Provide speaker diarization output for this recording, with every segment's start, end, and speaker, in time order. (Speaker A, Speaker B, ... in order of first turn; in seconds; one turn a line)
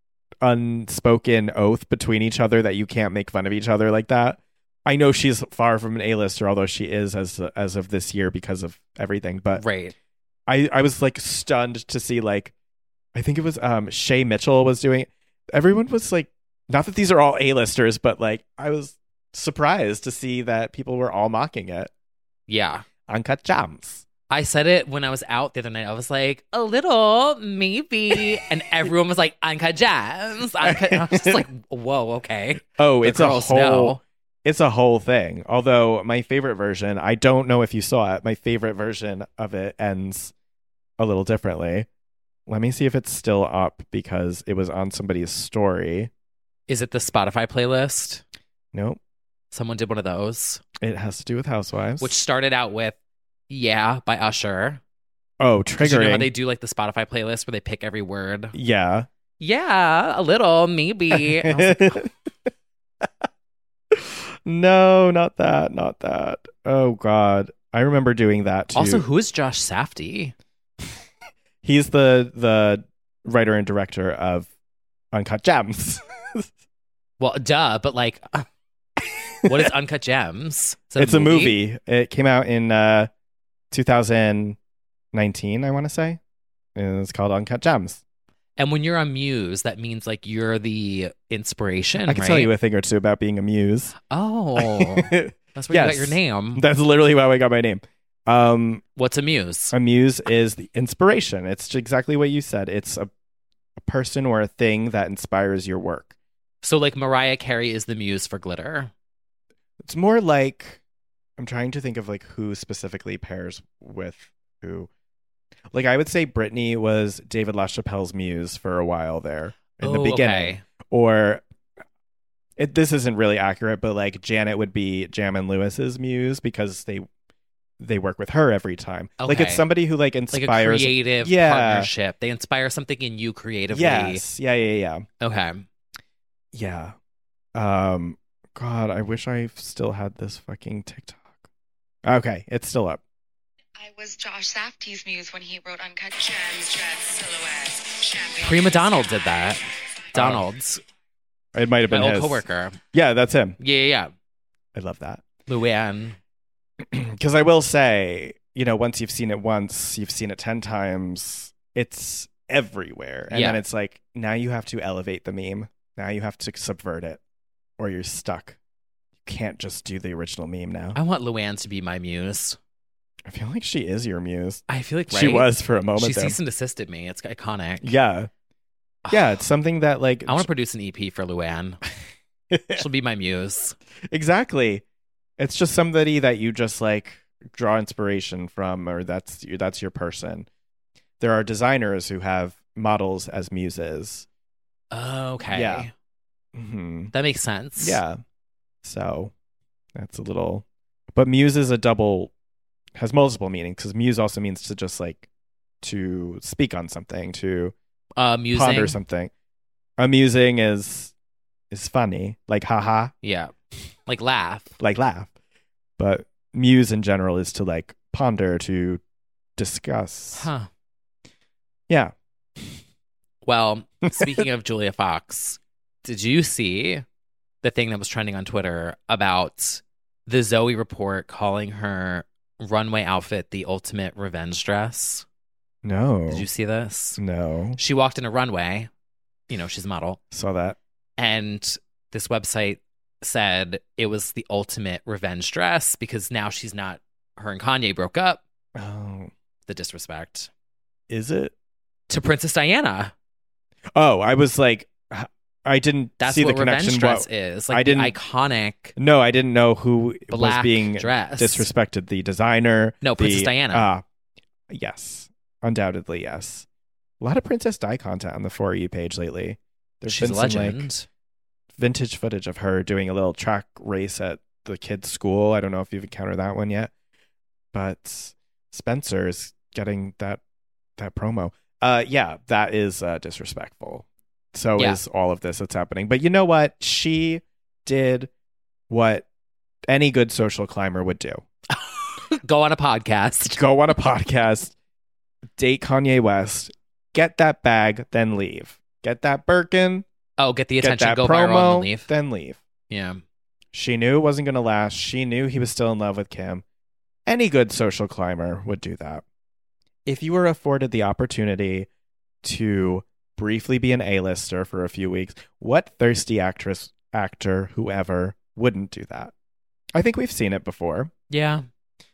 Speaker A: 0.4-9.6
Speaker B: 9.6-9.9
Speaker A: 10.5-12.5
Speaker A: 13.1-21.9
Speaker B: 22.5-22.9
Speaker A: 23.1-24.1
Speaker B: 24.3-34.0
Speaker A: 30.6-31.4
Speaker A: 32.6-40.3
Speaker A: 41.0-41.9
Speaker A: 42.5-46.1
Speaker B: 46.7-48.2
Speaker A: 48.7-49.0
Speaker B: 49.5-50.6
Speaker A: 50.8-52.1
Speaker B: 52.0-53.0
Speaker B: 53.5-54.8
Speaker A: 55.4-56.3
Speaker B: 55.8-58.5
Speaker A: 58.5-59.1
Speaker B: 59.4-62.0
Speaker A: 61.1-62.1
Speaker A: 63.9-69.0
Speaker B: 68.7-70.3
Speaker A: 71.6-74.5
Speaker A: 75.1-76.5
Speaker B: 77.2-78.5
Speaker B: 79.4-81.6
Speaker A: 81.0-83.1
Speaker A: 83.7-84.6
Speaker A: 85.1-86.2
Speaker A: 86.7-88.0
Speaker B: 88.6-92.5
Speaker A: 92.0-94.0
Speaker B: 94.1-96.6
Speaker A: 94.6-98.8
Speaker B: 99.0-99.7
Speaker A: 99.7-103.1
Speaker A: 103.8-106.1
Speaker B: 106.6-108.9
Speaker A: 109.8-110.8
Speaker A: 111.4-114.9
Speaker A: 115.7-121.4
Speaker B: 119.8-120.6
Speaker A: 122.6-127.1
Speaker A: 127.8-131.9
Speaker B: 129.2-129.7
Speaker B: 130.3-134.2
Speaker A: 133.7-135.1
Speaker B: 135.2-135.7
Speaker A: 136.5-136.9
Speaker A: 137.5-141.5
Speaker A: 142.0-143.0
Speaker C: 143.8-149.5
Speaker B: 148.4-149.6
Speaker B: 150.1-150.8
Speaker A: 150.1-150.4
Speaker A: 151.5-153.6
Speaker B: 151.9-152.8
Speaker B: 153.6-154.1
Speaker A: 154.7-155.2
Speaker B: 155.5-156.2
Speaker A: 156.8-167.2
Speaker B: 163.3-163.6
Speaker A: 167.8-168.6
Speaker A: 169.2-171.0
Speaker B: 170.9-172.6
Speaker A: 173.2-176.4
Speaker B: 174.7-177.9
Speaker A: 177.8-178.3
Speaker B: 179.1-179.3
Speaker A: 179.1-180.5
Speaker B: 180.2-181.8
Speaker A: 182.5-182.8
Speaker B: 182.7-183.8
Speaker A: 184.1-184.8
Speaker A: 185.4-190.5
Speaker A: 191.2-194.2
Speaker B: 194.9-195.9
Speaker A: 195.5-195.9
Speaker A: 196.5-197.1
Speaker B: 197.1-198.0
Speaker A: 197.8-198.2
Speaker A: 198.8-199.3
Speaker A: 199.9-202.3
Speaker A: 202.9-205.2
Speaker A: 205.8-207.7
Speaker B: 208.2-209.0
Speaker A: 208.5-209.3
Speaker A: 210.0-211.1
Speaker A: 211.7-213.1
Speaker B: 213.2-213.5
Speaker B: 214.1-214.7
Speaker A: 214.8-215.3
Speaker A: 216.0-219.0
Speaker A: 219.6-220.5
Speaker B: 220.3-220.7
Speaker A: 221.9-222.8
Speaker B: 223.4-227.0
Speaker A: 224.2-224.4
Speaker B: 227.6-235.2
Speaker A: 235.8-236.5
Speaker B: 236.3-237.2
Speaker A: 237.2-237.8
Speaker B: 237.8-238.9
Speaker B: 239.5-240.2
Speaker A: 240.3-240.8
Speaker B: 241.2-248.4
Speaker A: 248.7-249.3
Speaker B: 249.7-250.5
Speaker A: 251.1-251.5
Speaker B: 252.1-253.1
Speaker A: 253.9-258.1
Speaker B: 256.2-258.9
Speaker A: 258.9-264.0
Speaker B: 260.3-261.7
Speaker B: 263.0-263.9
Speaker A: 264.7-266.6
Speaker A: 267.2-270.9
Speaker B: 270.1-271.1
Speaker A: 271.8-276.9
Speaker A: 277.7-280.4
Speaker A: 281.0-288.3
Speaker A: 288.9-289.2
Speaker A: 289.9-291.4
Speaker B: 291.7-293.6
Speaker A: 293.5-294.7
Speaker A: 295.6-300.1
Speaker B: 300.4-302.1
Speaker A: 300.8-302.6
Speaker B: 302.9-303.2
Speaker A: 303.7-306.6
Speaker A: 307.2-309.2
Speaker A: 310.1-311.9
Speaker A: 312.4-319.3
Speaker A: 319.9-321.1
Speaker B: 321.3-321.6